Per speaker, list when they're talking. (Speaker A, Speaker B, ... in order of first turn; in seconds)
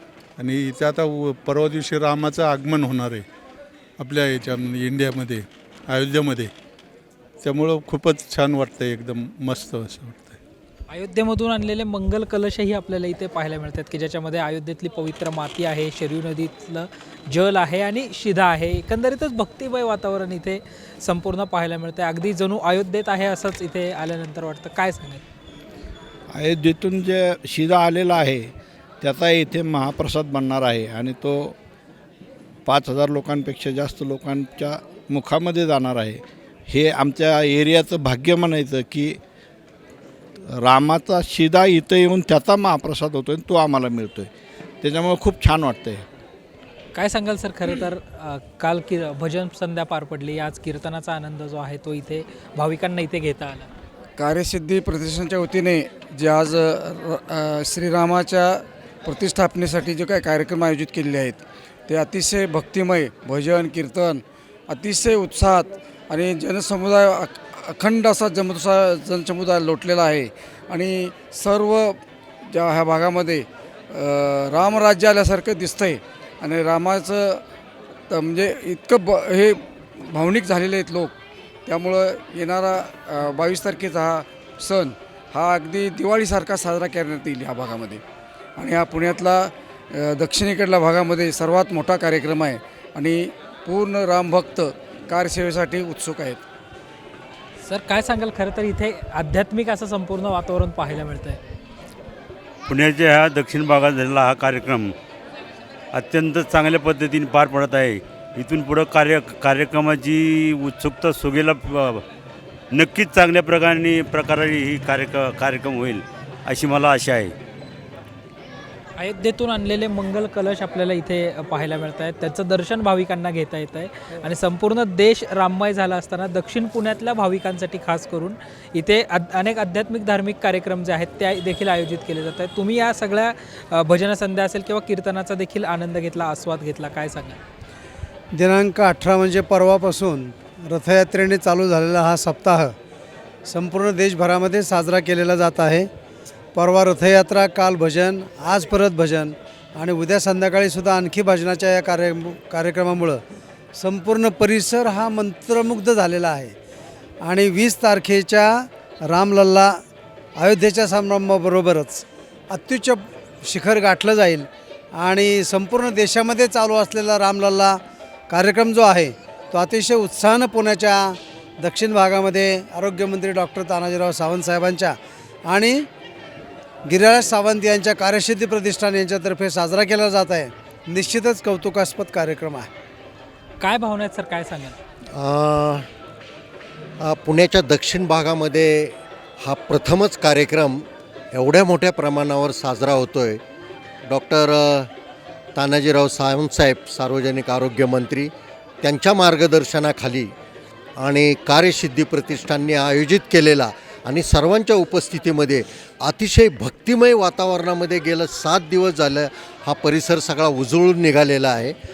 Speaker A: 0.4-3.2, 4.0-6.5, 7.4-10.4
Speaker B: 10.9-25.2, 46.9-53.7, 97.7-101.4, 119.0-137.4, 183.6-184.8
Speaker C: 26.3-31.6, 32.7-39.2, 40.6-44.3, 44.8-46.0
Speaker D: 54.2-77.4, 78.1-81.1, 81.7-88.0, 88.6-96.4
Speaker E: 102.7-104.9, 105.9-112.0, 112.7-117.3
Speaker F: 138.3-142.7, 143.5-145.9, 146.6-153.2, 153.8-156.6, 157.2-159.8, 160.4-175.8, 176.9-182.7
Speaker G: 185.1-185.9, 187.0-193.4, 194.1-194.9, 195.6-200.3, 201.0-211.8